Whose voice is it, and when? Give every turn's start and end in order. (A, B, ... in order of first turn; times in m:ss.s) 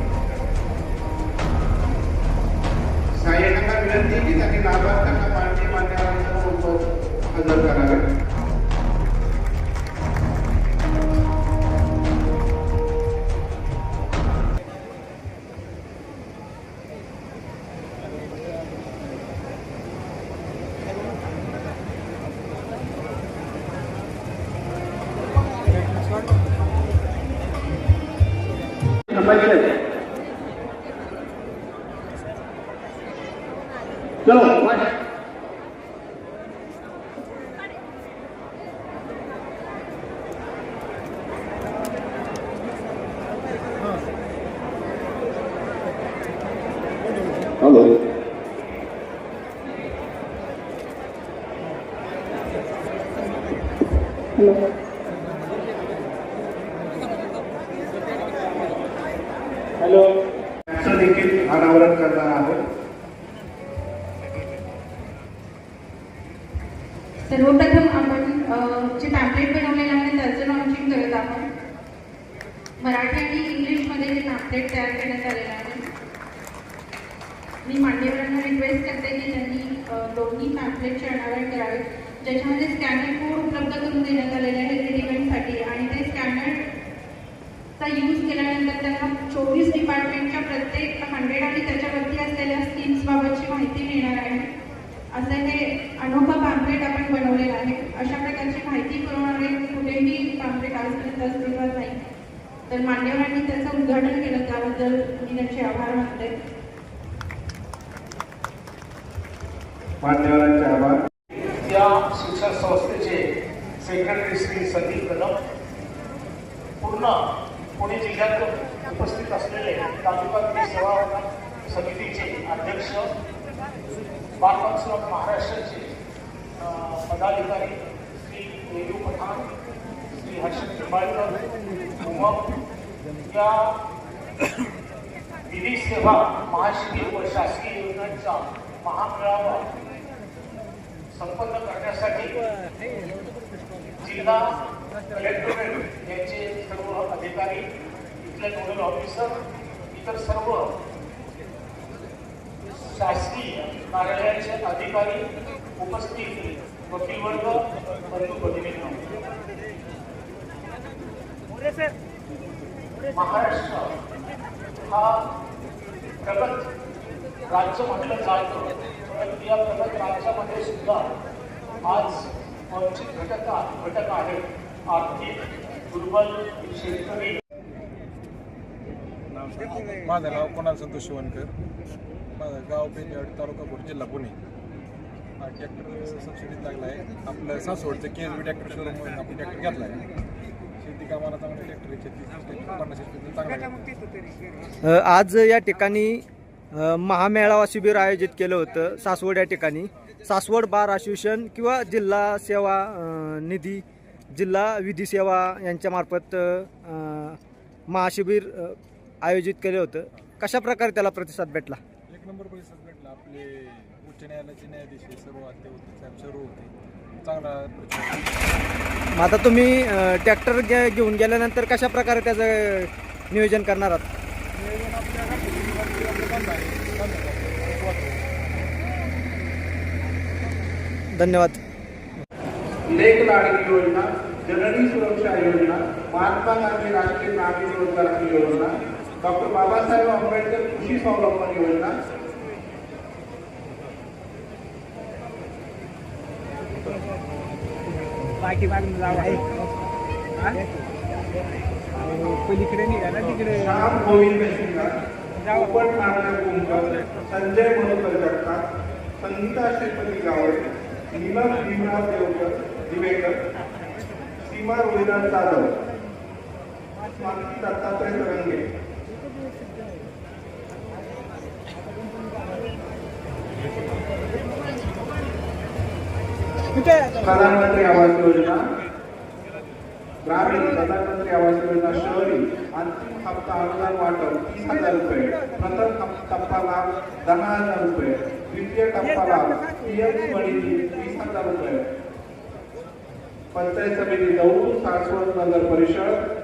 0:03.2-0:08.0 A
1:00.7-1:02.6 A
1:07.3-1:11.4 B
1:12.8-1:15.8 B
1:17.6-1:26.6 B
1:27.8-1:34.5 B
1:35.1-1:42.0 B
1:42.7-1:46.3 B
1:50.0-1:51.0 A
1:51.6-1:53.2 C
1:53.8-1:55.3 C
1:56.8-1:57.2 C
1:57.8-2:03.0 C
2:04.4-2:05.9 C
2:06.6-2:09.5 C
2:10.1-2:11.5 C
2:12.0-2:12.5 C
2:13.3-2:13.7 C
2:15.5-2:19.7 C
2:21.1-2:22.3 C
2:24.0-2:24.5 C
2:25.1-2:27.6 C
2:28.2-2:29.3 C
2:29.9-2:30.7 C
2:32.8-2:35.2 C
2:35.8-2:39.0 C
2:43.1-2:43.9 C
2:44.9-2:45.2 C
2:46.2-2:46.7 C
2:47.5-2:51.1 C
2:51.8-2:55.4 C
2:55.9-2:57.4 C
2:59.3-3:01.5 D
3:02.4-3:04.4 D
3:05.4-3:10.0 D
3:10.8-3:13.9 D
3:14.8-3:23.8 E
3:24.3-3:31.8 E
3:32.1-3:38.5 D
3:39.2-3:44.0 E
3:44.6-3:48.2 D
3:51.1-3:51.6 E
3:52.9-4:01.9 A
4:13.2-4:14.9 A
4:15.4-4:18.7 A
4:19.2-4:23.4 A
4:24.4-4:25.7 A
4:27.1-4:28.6 A
4:37.2-4:38.6 A
4:40.2-4:51.9 A
4:53.5-4:56.2 A